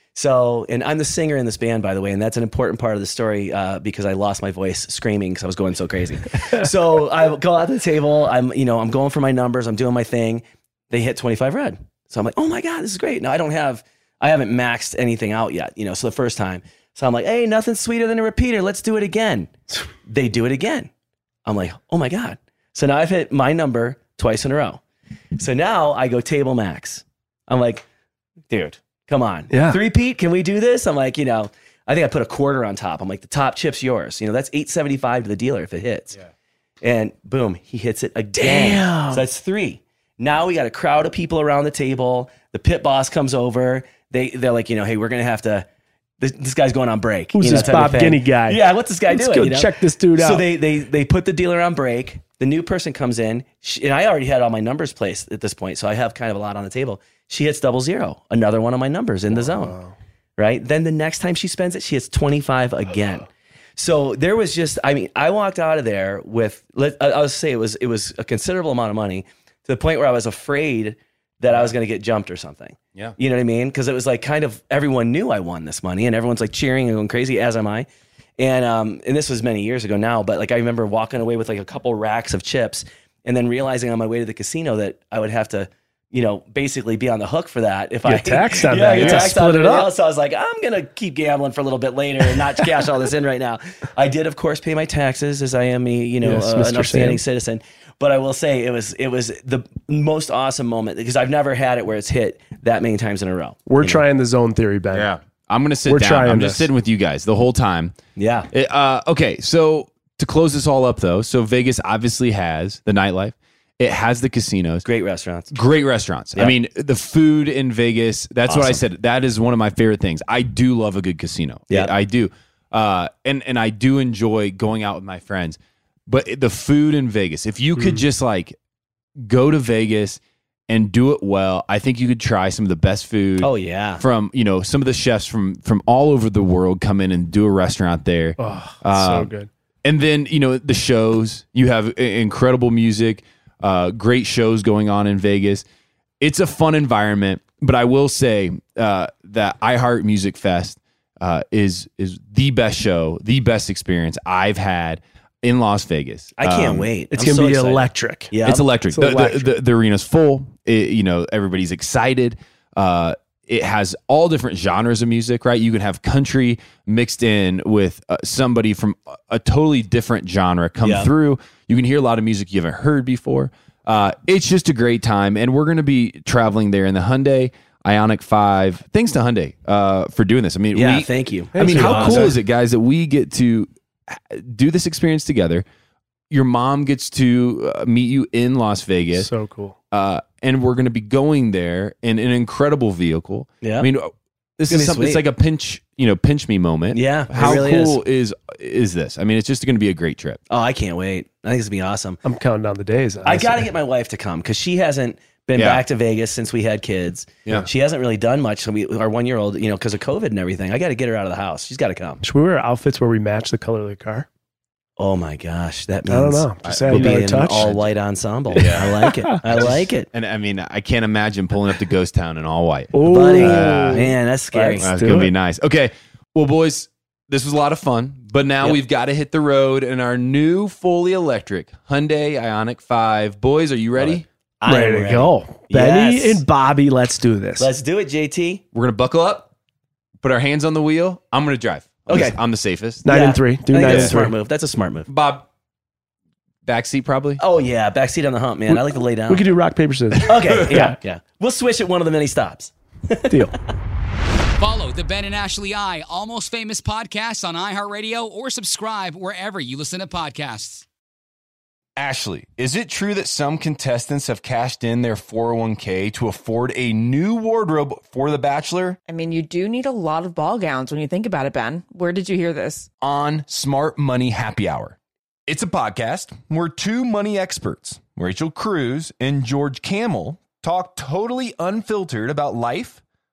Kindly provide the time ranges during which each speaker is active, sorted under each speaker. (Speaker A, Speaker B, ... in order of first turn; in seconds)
Speaker A: 0.1-19.5, 20.1-20.9, 21.5-24.8, 25.4-27.9, 28.5-36.2, 36.8-45.7, 46.2-59.8, 60.4-77.9, 78.4-104.0, 108.2-108.5, 114.8-115.6, 118.5-118.8, 133.4-134.0, 156.4-158.7, 170.8-171.1, 180.7-182.3, 193.6-193.9, 194.7-195.2, 196.9-198.0, 200.5-202.2, 203.2-212.2, 215.0-220.1, 223.1-225.2, 234.0-236.4, 237.6-238.6, 242.1-242.4, 243.1-245.1, 247.4-249.5, 250.2-253.5
Speaker B: 29.5-29.8, 38.4-39.2, 47.4-50.4, 59.3-59.9, 88.1-89.9, 96.2-97.2, 103.7-105.1, 105.9-106.7, 138.4-139.5, 157.1-158.3, 158.9-159.5, 181.5-182.4, 189.2-189.8, 202.2-203.7, 212.2-214.3, 216.1-217.7, 218.6-219.3, 222.9-225.3, 234.7-237.7, 243.1-244.3, 248.7-251.0, 253.3-253.5
Speaker C: 88.9-89.3, 104.9-108.0, 108.5-114.9, 115.5-128.6, 129.2-139.3, 139.8-145.7, 146.2-156.9, 158.4-185.7, 186.3-189.3, 189.9-200.4, 205.6-205.8, 216.6-217.9, 218.5-218.9, 219.5-224.0, 224.8-234.2, 238.7-239.5, 240.2-243.1, 243.8-244.2, 245.1-245.5, 246.7-247.4, 250.3-250.8, 262.0-269.0, 273.0-283.0
Speaker D: 254.6-260.9
Speaker E: 269.1-272.9